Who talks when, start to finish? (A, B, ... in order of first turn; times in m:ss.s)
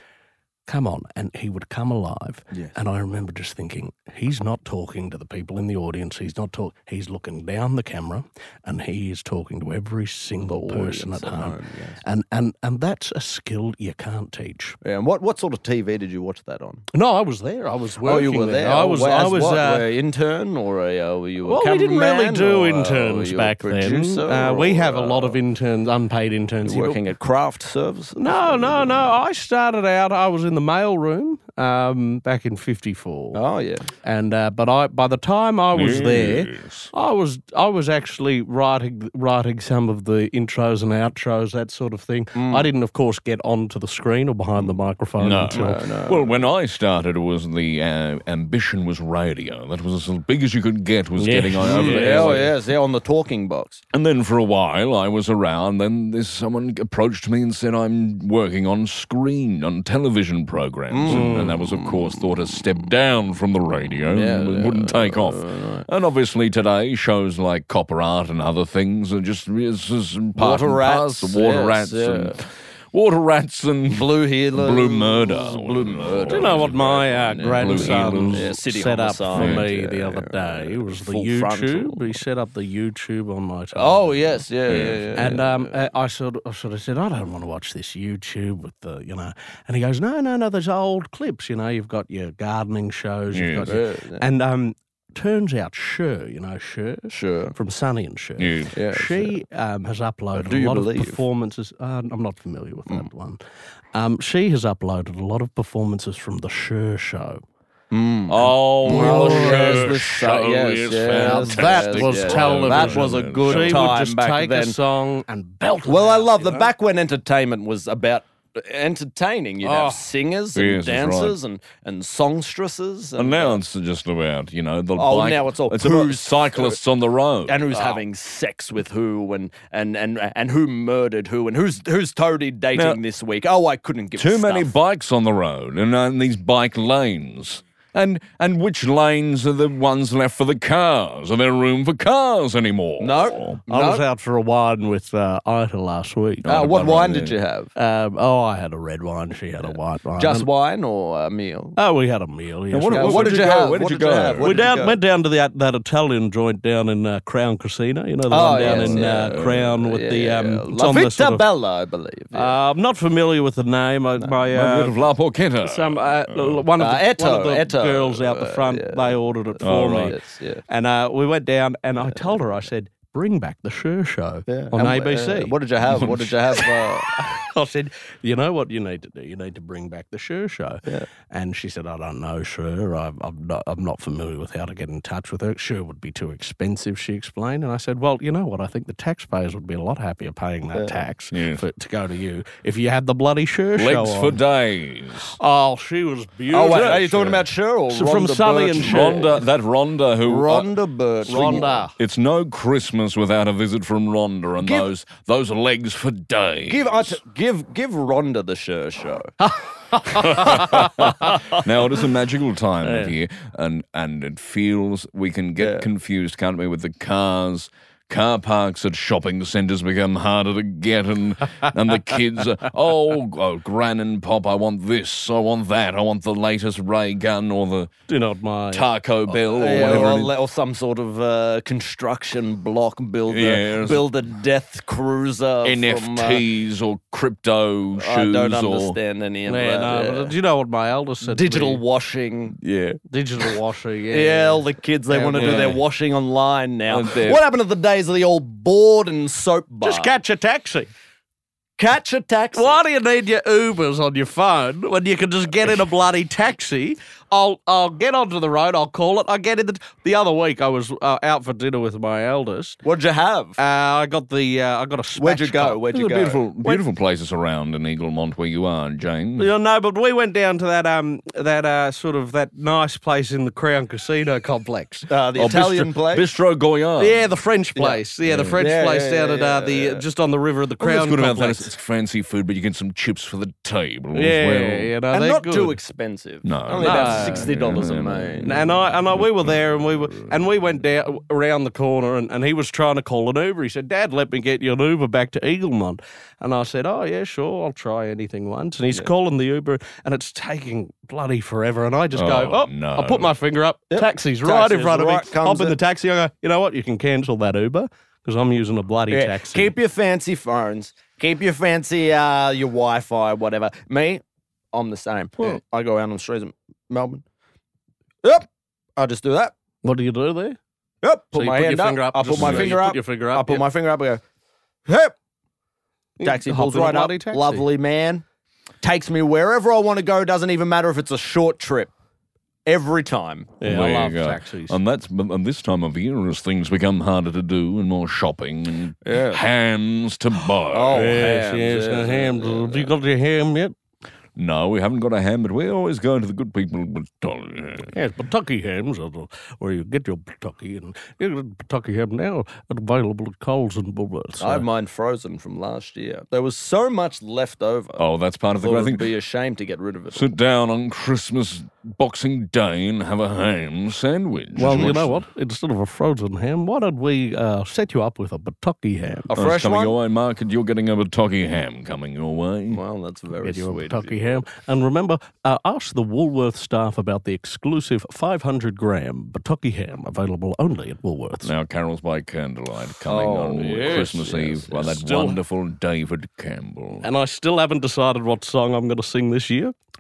0:00.7-0:14.8 A
0:10.5-0:12.0 B
0:14.8-0:16.8 B
0:16.9-0:19.8 A
0:18.0-0:25.4 B
0:21.5-0:27.0 A
0:26.6-0:29.1 B
0:28.2-0:33.4 A
0:33.3-0:33.9 B
0:34.0-0:45.8 A
0:35.7-0:36.9 C
0:42.3-0:42.7 B
0:45.2-0:52.5 C
0:45.5-0:46.3 B
0:51.2-0:52.5 A
0:51.6-0:53.8 B
0:53.9-1:16.7 C
1:00.9-1:02.7 B
1:01.1-1:01.6 A
1:04.1-1:05.9 B
1:10.4-1:12.4 B
1:13.9-1:22.2 B
1:16.3-1:24.4 A
1:17.5-1:18.5 C
1:19.3-1:19.7 C
1:23.7-1:25.7 B
1:24.7-1:25.4 C
1:25.1-1:43.4 A
1:33.3-1:33.8 C
1:33.7-1:34.2 B
1:37.1-1:37.5 B
1:38.4-1:38.8 C
1:38.7-1:39.4 B
1:40.3-1:41.2 B
1:43.9-1:47.4 A
1:47.9-1:54.8 B
1:48.3-1:53.9 C
1:48.8-1:49.9 A
1:51.1-1:56.7 A
1:55.9-2:03.6 B
1:59.6-2:00.0 A
2:00.5-2:01.4 C
2:03.2-2:07.7 C
2:05.0-2:06.8 B
2:07.5-2:14.7 B
2:12.7-2:13.0 C
2:14.2-2:23.6 C
2:23.0-2:24.0 B
2:23.7-2:26.6 A
2:26.4-2:27.4 C
2:26.5-2:27.7 B
2:27.8-2:30.5 A
2:29.6-2:31.8 B
2:31.8-2:33.6 A
2:32.7-2:34.7 C
2:32.9-2:35.0 B
2:34.4-2:41.4 A
2:38.3-2:42.6 B
2:38.4-2:39.5 C
2:42.3-2:45.0 A
2:44.5-2:46.6 C
2:45.6-2:50.2 A
2:46.8-2:50.6 B
2:49.6-2:50.2 C
2:50.7-3:14.4 A
2:52.0-2:52.4 B
2:54.5-2:57.1 B
2:55.9-2:56.1 C
3:11.3-3:11.6 C
3:13.8-3:15.4 C
3:15.2-3:19.4 A
3:16.5-3:19.4 B
3:18.8-3:20.7 C
3:20.2-3:21.8 B
3:21.2-3:27.2 C
3:21.3-3:21.9 A
3:24.6-3:24.9 B
3:26.7-3:29.3 B
3:29.4-3:31.4 A
3:30.1-3:47.9 C
3:30.1-3:30.6 B
3:32.8-3:33.1 A
3:35.6-3:35.8 B
3:48.1-3:48.9 A
3:48.7-3:50.3 C
3:49.3-3:56.4 B
3:53.3-3:54.0 C
3:55.6-3:59.0 C
3:58.0-4:00.3 B
3:59.5-4:01.8 A
4:01.2-4:03.0 B
4:03.1-4:05.8 A
4:04.1-4:10.1 B
4:05.4-4:05.8 C
4:06.9-4:07.4 C
4:09.8-4:10.9 A
4:11.8-4:12.8 B
4:12.6-4:22.8 A
4:22.8-4:23.6 B
4:23.6-4:25.8 A
4:25.2-4:26.8 B
4:25.9-4:29.5 C
4:29.4-4:35.1 A
4:35.1-4:36.3 B
4:35.4-4:37.2 C
4:37.0-4:41.7 A
4:37.8-4:38.0 B
4:38.2-4:38.6 C
4:38.5-4:40.0 B
4:40.8-4:44.9 C
4:44.1-4:45.8 A
4:45.1-4:48.6 B
4:46.4-4:50.4 C
4:46.8-4:47.5 A
4:48.4-5:09.7 A
5:02.1-5:03.3 C
5:03.9-5:05.8 B
5:09.1-5:14.2 B
5:14.7-5:17.2 B
5:19.0-5:19.5 B
5:19.8-5:20.6 A
5:21.0-5:24.2 B
5:21.3-5:23.6 A
5:22.3-5:22.8 C
5:24.9-5:25.1 B
5:26.2-5:27.7 A
5:26.2-5:28.2 B
5:28.8-5:31.9 B
5:32.7-5:33.6 B
5:33.6-5:34.8 A
5:33.6-5:41.2 C
5:39.0-5:39.4 B
5:40.7-5:42.9 B
5:40.9-5:43.7 A
5:44.4-5:47.9 C
5:47.9-5:54.6 A
5:54.4-5:58.0 B
5:58.0-5:59.1 C
5:58.6-6:00.3 B
6:00.1-6:05.2 C
6:04.6-6:09.3 A
6:04.6-6:05.0 B
6:09.3-6:10.0 B
6:09.4-6:12.8 C
6:12.7-6:14.4 B
6:13.4-6:21.5 A
6:21.4-6:27.1 C
6:23.1-6:24.8 B
6:23.6-6:25.4 A
6:27.0-6:29.7 A